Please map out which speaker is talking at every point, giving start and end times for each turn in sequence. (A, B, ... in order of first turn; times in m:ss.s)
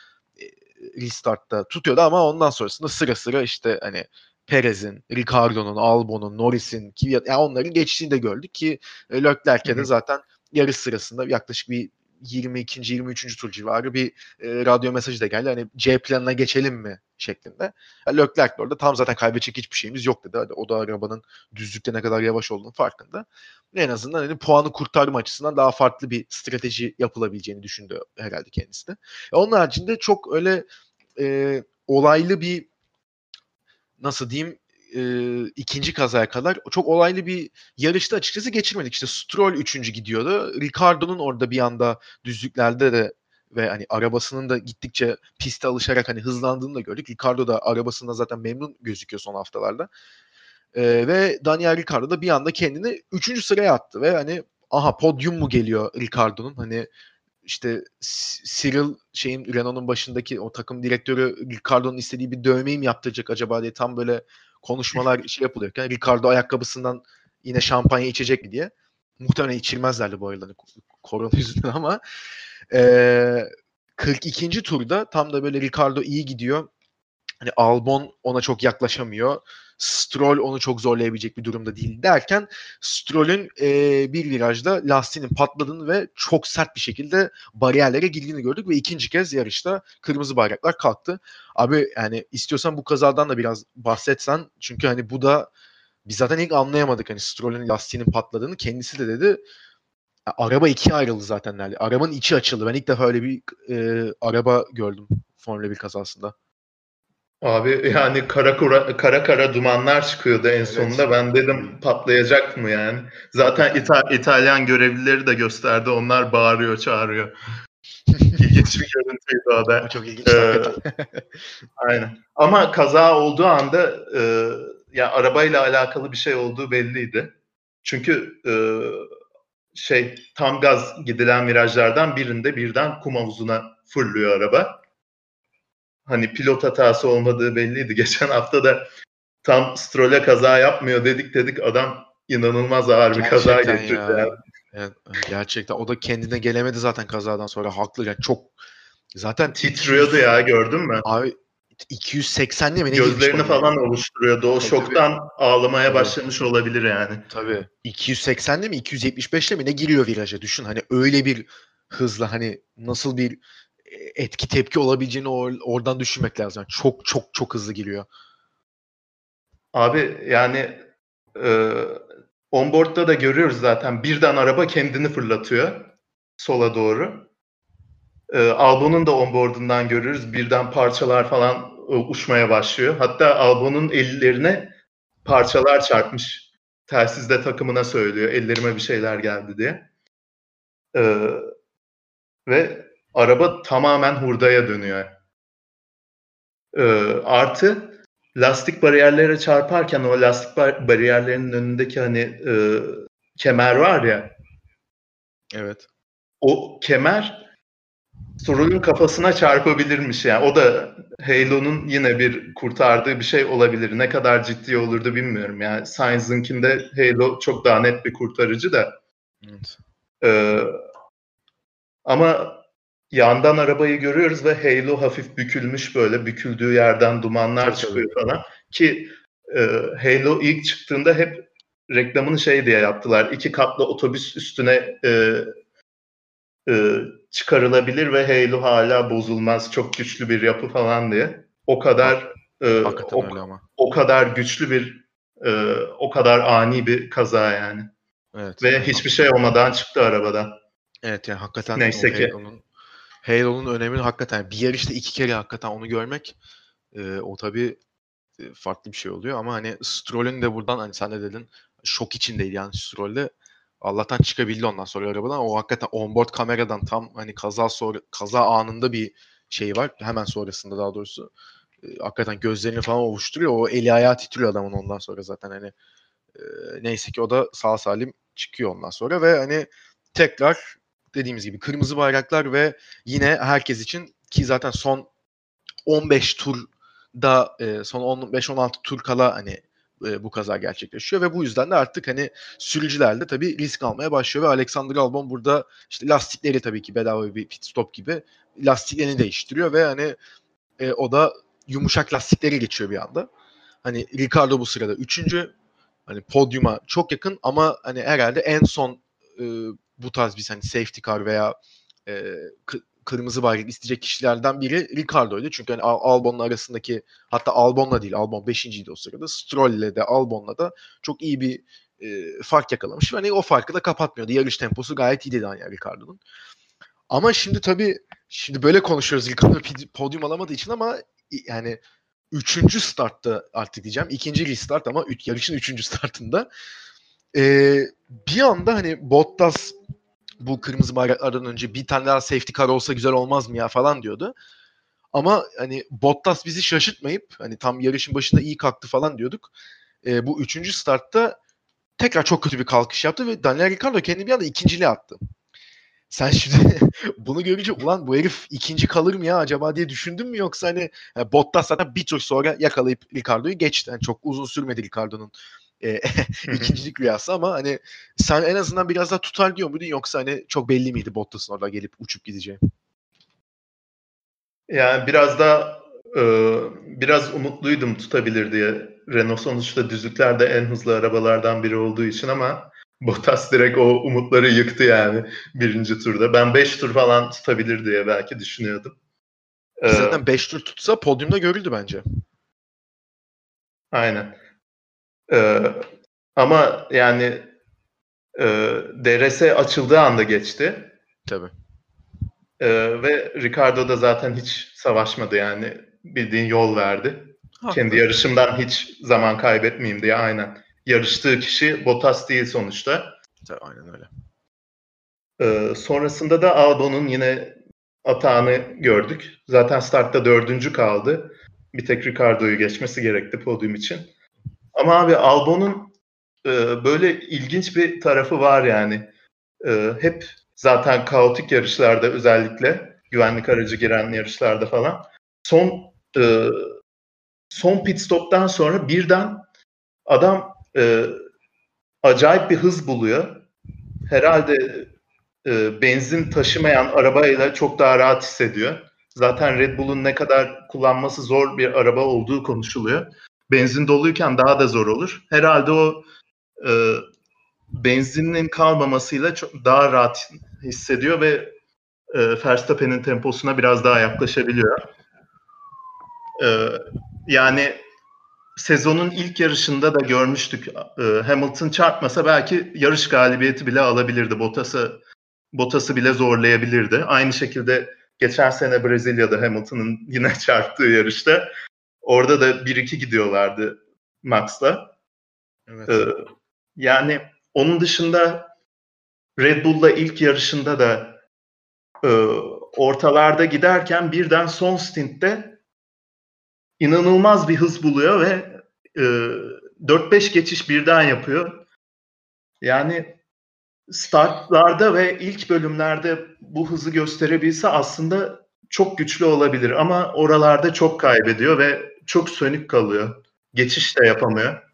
0:00.4-0:30.6 A
0:31.2-0:32.7 A
0:34.0-0:49.9 A
0:50.7-0:56.9 A
0:57.4-1:12.0 A
1:12.7-1:16.7 A
1:17.4-1:35.5 A
1:36.0-1:39.4 A
1:40.3-1:46.3 A
1:47.4-1:57.3 B
1:50.6-1:51.7 A
1:53.4-1:53.9 A
1:58.1-1:58.4 A
1:58.4-2:00.8 B
1:59.8-2:01.2 A
2:01.8-2:07.3 B
2:07.8-2:09.1 B
2:09.7-2:14.8 B
2:16.0-2:18.9 B
2:19.4-2:24.3 B
2:23.1-2:28.5 A
2:29.1-2:30.3 A
2:29.6-2:31.0 B
2:31.0-2:31.3 A
2:31.9-2:33.7 A
2:32.9-2:37.3 B
2:34.6-2:35.0 A
2:35.9-2:36.2 A
2:37.3-2:48.0 A
2:49.7-2:50.8 B
2:51.4-2:57.3 B
2:58.3-3:04.7 B
3:05.2-3:09.8 B
3:10.9-3:11.5 B
3:12.4-3:15.1 B
3:16.7-3:24.3 B
3:25.5-3:25.8 A
3:26.4-3:27.4 B
3:28.4-3:39.0 B
3:39.4-3:39.8 A
3:40.2-3:40.8 B
3:42.0-3:55.5 B
3:47.6-3:48.1 A
3:56.6-4:07.9 B
4:02.8-4:03.6 A
4:08.3-4:09.1 A
4:08.6-4:10.6 B
4:11.0-4:12.6 A
4:11.7-4:12.3 B
4:13.2-4:16.3 A
4:16.9-4:17.8 A
4:18.4-4:31.3 A
4:31.8-4:35.7 A
4:36.4-4:45.1 A
4:45.8-5:00.2 A
5:00.8-5:03.3 A
5:03.8-5:05.5 A
5:06.1-5:26.2 A
5:27.1-5:31.8 A
5:32.3-5:36.5 A
5:37.3-5:39.7 A
5:40.4-5:44.3 A
5:45.1-5:49.5 A
5:50.0-5:51.4 A
5:52.0-5:55.2 A
5:56.1-6:12.6 A
6:06.5-6:06.7 B
6:14.7-6:29.0 B
6:29.8-6:30.2 B
6:29.9-6:32.0 A
6:33.9-6:34.4 B
6:35.3-6:35.8 B
6:36.4-6:37.5 B
6:38.4-6:40.9 B
6:41.3-6:41.5 A
6:42.6-6:53.1 B
6:47.6-6:48.0 A
6:53.4-6:54.1 A
6:55.4-7:04.1 B
7:04.7-7:09.1 B
7:09.6-7:16.6 B
7:17.5-7:19.4 B
7:20.0-7:21.1 B
7:22.0-7:23.4 B
7:24.0-7:24.9 B
7:25.4-7:36.0 B
7:36.6-7:37.1 B
7:37.7-7:41.5 B
7:42.1-7:44.8 B
7:46.4-7:47.8 B
7:48.6-7:55.0 B
7:55.5-8:01.5 B
8:02.0-8:04.9 B
8:05.7-8:06.0 A
8:05.9-8:06.2 B
8:06.8-8:08.5 B
8:09.4-8:11.2 B
8:12.0-8:15.6 B
8:16.8-8:21.6 B
8:22.6-8:23.1 B
8:23.9-8:34.6 B